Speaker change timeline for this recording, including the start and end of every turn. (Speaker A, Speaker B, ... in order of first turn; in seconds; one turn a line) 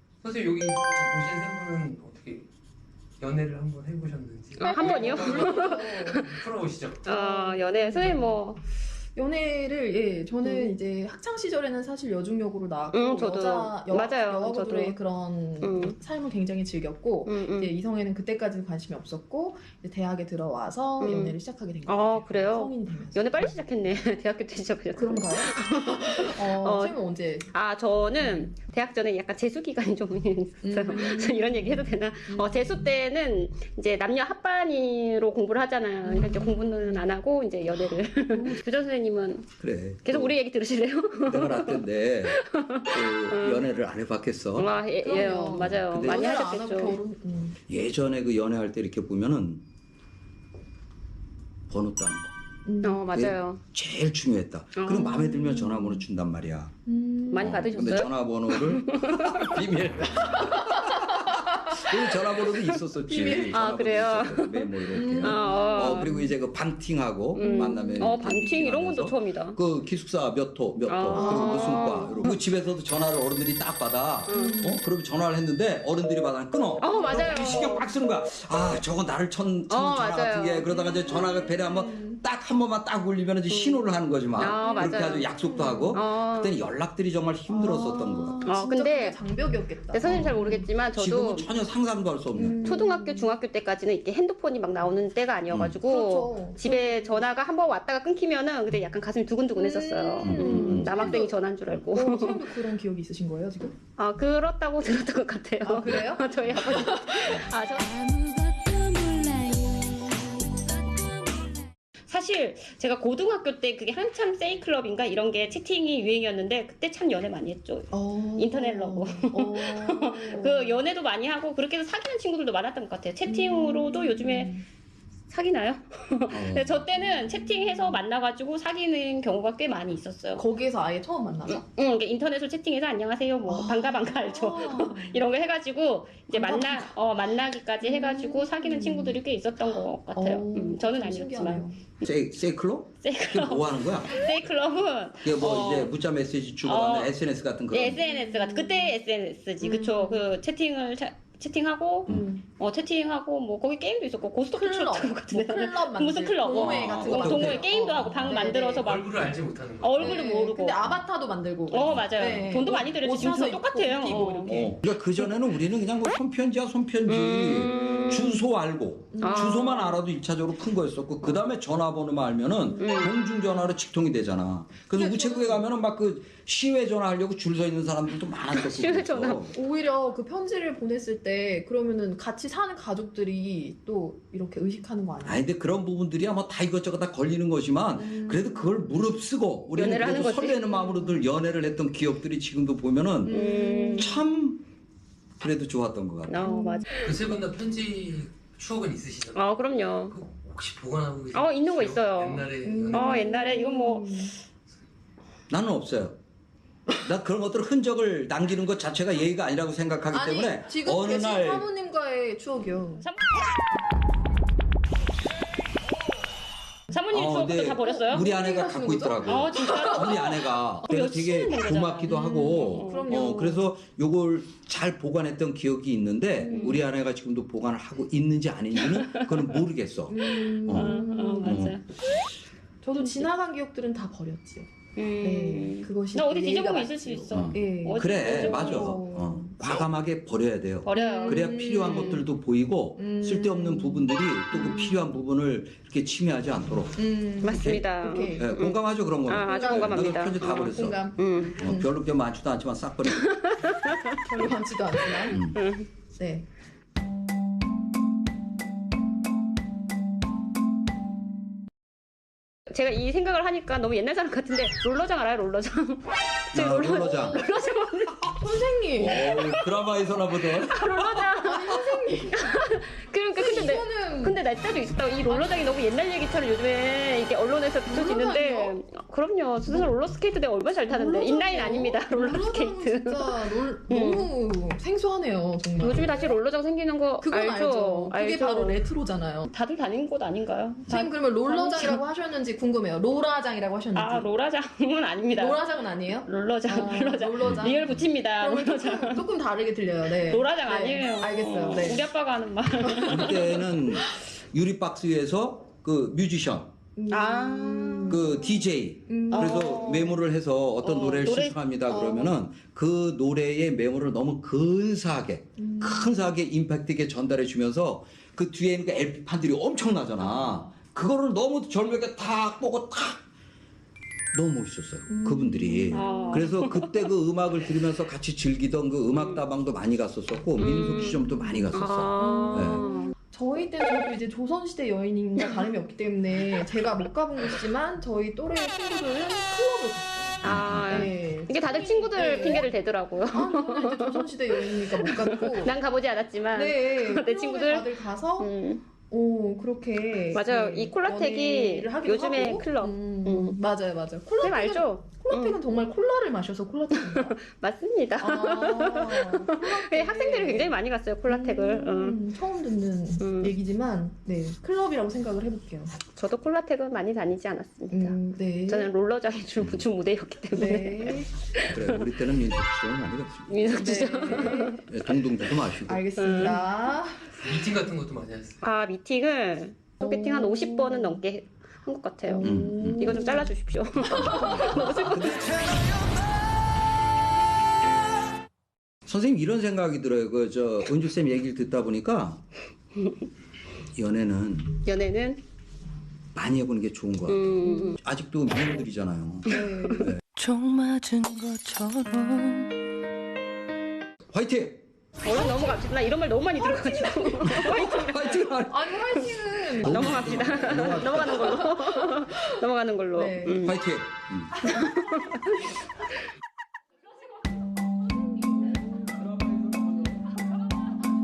Speaker A: 0.2-2.5
Speaker A: 3.2-7.1
Speaker B: 4.6-6.3
Speaker C: 4.6-6.3
Speaker B: 7.0-8.6
Speaker C: 7.1-8.4
Speaker C: 9.2-23.5
Speaker B: 10.4-10.7
Speaker B: 12.9-14.9
Speaker B: 15.6-15.9
Speaker B: 17.2-17.7
Speaker B: 21.0-26.9
Speaker C: 24.9-27.5
Speaker B: 27.5-39.5
Speaker C: 28.2-28.5
Speaker C: 30.6-32.9
Speaker C: 36.0-37.0
Speaker C: 37.8-38.6
Speaker D: 39.6-40.4
Speaker B: 40.0-43.7
Speaker D: 41.2-44.7
Speaker B: 44.6-47.0
Speaker C: 45.0-47.6
Speaker D: 45.6-46.5
Speaker D: 47.7-49.6
Speaker D: 51.7-52.3
Speaker C: 52.6-53.0
Speaker B: 52.8-53.6
Speaker D: 53.1-56.7
Speaker B: 54.8-55.3
Speaker C: 55.5-56.0
Speaker C: 56.9-58.0
Speaker B: 57.3-59.5
Speaker D: 57.4-60.5
Speaker C: 60.3-60.8
Speaker D: 61.7-88.4
Speaker C: 63.1-63.6
Speaker B: 63.2-66.1
Speaker C: 64.9-66.3
Speaker B: 67.3-69.6
Speaker C: 67.4-68.3
Speaker B: 70.9-72.3
Speaker C: 71.1-72.3
Speaker B: 74.3-74.6
Speaker C: 74.3-74.8
Speaker B: 76.8-77.9
Speaker C: 76.8-77.8
Speaker B: 79.7-80.7
Speaker C: 80.7-82.2
Speaker B: 83.5-83.8
Speaker B: 84.4-85.3
Speaker C: 84.4-86.0
Speaker B: 85.9-86.5
Speaker C: 87.5-90.6
Speaker B: 88.4-89.2
Speaker B: 89.9-91.5
Speaker D: 90.0-90.4
Speaker D: 90.9-92.8
Speaker C: 92.3-93.3
Speaker B: 92.6-102.5
Speaker D: 95.5-95.8
Speaker C: 95.8-97.3
Speaker C: 99.6-103.7
Speaker D: 100.2-100.9
Speaker B: 104.0-108.2
Speaker C: 105.6-107.4
Speaker B: 112.1-124.5
Speaker C: 117.9-120.8
Speaker C: 123.3-124.6
Speaker B: 125.3-130.4
Speaker D: 126.3-126.8
Speaker C: 127.0-128.0
Speaker C: 130.3-131.6
Speaker B: 131.4-141.6
Speaker C: 133.5-135.2
Speaker C: 136.3-136.9
Speaker C: 137.8-139.2
Speaker C: 140.2-141.8
Speaker D: 142.0-144.2
Speaker B: 143.0-145.9
Speaker D: 145.2-148.0
Speaker B: 146.6-147.1
Speaker B: 147.7-161.0
Speaker C: 147.9-148.9
Speaker C: 149.6-150.2
Speaker C: 152.1-152.4
Speaker C: 154.5-158.8
Speaker D: 156.5-157.7
Speaker A: 158.8-160.2
Speaker C: 160.0-164.8
Speaker B: 161.7-164.7
Speaker D: 161.8-162.6
Speaker D: 164.4-179.5
Speaker B: 167.1-168.4
Speaker C: 169.1-169.9
Speaker B: 169.2-169.9
Speaker B: 172.7-173.1
Speaker C: 174.9-175.6
Speaker B: 178.5-179.5
Speaker C: 179.5-185.4
Speaker D: 185.2-194.6
Speaker C: 188.0-188.8
Speaker B: 189.7-190.6
Speaker C: 190.7-191.2
Speaker C: 193.2-194.2
Speaker B: 193.3-194.2
Speaker D: 195.4-196.5
Speaker B: 196.3-197.0
Speaker C: 196.4-196.9
Speaker A: 197.0-199.4
Speaker B: 199.3-200.2
Speaker A: 200.1-203.3
Speaker B: 201.3-204.3
Speaker C: 202.6-204.3
Speaker D: 205.5-206.2
Speaker D: 207.0-211.7
Speaker C: 210.1-213.0
Speaker B: 213.0-213.2
Speaker B: 216.9-218.3
Speaker D: 217.1-231.8
Speaker C: 217.8-220.3
Speaker B: 219.2-223.2
Speaker C: 222.1-223.6
Speaker C: 226.4-226.8
Speaker B: 226.5-226.8
Speaker C: 230.1-231.7
Speaker B: 230.7-231.8
Speaker C: 232.8-234.7
Speaker B: 233.0-233.3
Speaker B: 234.9-239.0
Speaker C: 235.2-239.6
Speaker D: 237.3-247.0
Speaker B: 240.8-242.2
Speaker C: 240.9-242.2
Speaker C: 243.0-245.2
Speaker C: 247.0-248.6
Speaker B: 247.4-251.6
Speaker D: 247.5-253.3
Speaker C: 249.3-251.9
Speaker B: 253.2-253.9
Speaker C: 254.3-255.4
Speaker B: 255.1-255.9
Speaker D: 255.3-255.6
Speaker C: 256.2-256.5
Speaker B: 262.7-268.3
Speaker D: 266.5-267.4
Speaker C: 267.0-267.4
Speaker C: 268.3-269.4
Speaker D: 269.0-270.9
Speaker B: 269.1-269.4
Speaker B: 270.6-284.3
Speaker C: 271.3-272.5
Speaker C: 273.3-274.4
Speaker C: 275.3-275.7
Speaker C: 277.9-278.7
Speaker C: 279.6-279.9
Speaker C: 280.8-286.3
Speaker B: 285.8-288.8
Speaker C: 287.2-289.4
Speaker B: 289.4-292.0
Speaker C: 290.9-294.3
Speaker B: 293.9-295.6
Speaker C: 295.3-302.1
Speaker B: 296.2-299.2
Speaker D: 297.4-297.7
Speaker B: 300.3-303.5
Speaker C: 302.8-303.6
Speaker D: 303.1-306.7
Speaker C: 306.9-308.4
Speaker B: 307.1-308.2
Speaker D: 308.1-323.2
Speaker C: 309.1-310.1
Speaker B: 309.3-310.2
Speaker B: 310.8-311.6
Speaker C: 311.9-312.3
Speaker C: 315.6-316.1
Speaker D: 324.3-332.9
Speaker C: 325.1-326.4
Speaker B: 325.9-327.0
Speaker B: 330.6-333.1
Speaker C: 330.7-331.6
Speaker C: 332.2-342.7
Speaker D: 340.4-341.1
Speaker B: 340.4-348.8
Speaker C: 343.3-345.7
Speaker C: 346.5-348.5
Speaker C: 349.1-357.4
Speaker B: 350.3-353.6
Speaker B: 354.4-355.6
Speaker B: 356.9-362.2
Speaker C: 358.2-360.7
Speaker C: 361.3-365.9
Speaker B: 363.2-363.5
Speaker B: 366.1-372.0
Speaker C: 367.9-368.9
Speaker D: 369.6-369.8
Speaker C: 370.5-371.3
Speaker D: 371.7-376.0
Speaker B: 373.5-374.8
Speaker C: 373.8-374.8
Speaker C: 375.8-377.3
Speaker B: 376.2-376.6
Speaker A: 377.4-378.6
Speaker B: 378.6-385.5
Speaker C: 380.0-381.2
Speaker C: 382.3-383.5
Speaker D: 382.4-383.2
Speaker C: 384.1-385.2
Speaker D: 384.1-385.8
Speaker D: 389.1-392.4
Speaker D: 393.9-394.7
Speaker B: 394.8-395.4
Speaker D: 396.3-400.2
Speaker B: 397.3-398.0
Speaker C: 397.6-398.0
Speaker C: 399.5-400.1
Speaker E: 400.4-402.7
Speaker D: 404.3-404.8
Speaker B: 405.2-408.4
Speaker C: 406.6-408.1
Speaker D: 407.4-409.3
Speaker C: 408.7-412.5
Speaker B: 409.7-413.8
Speaker D: 409.8-411.6
Speaker C: 413.1-413.7
Speaker D: 413.6-414.6
Speaker B: 414.7-415.5
Speaker C: 418.4-418.8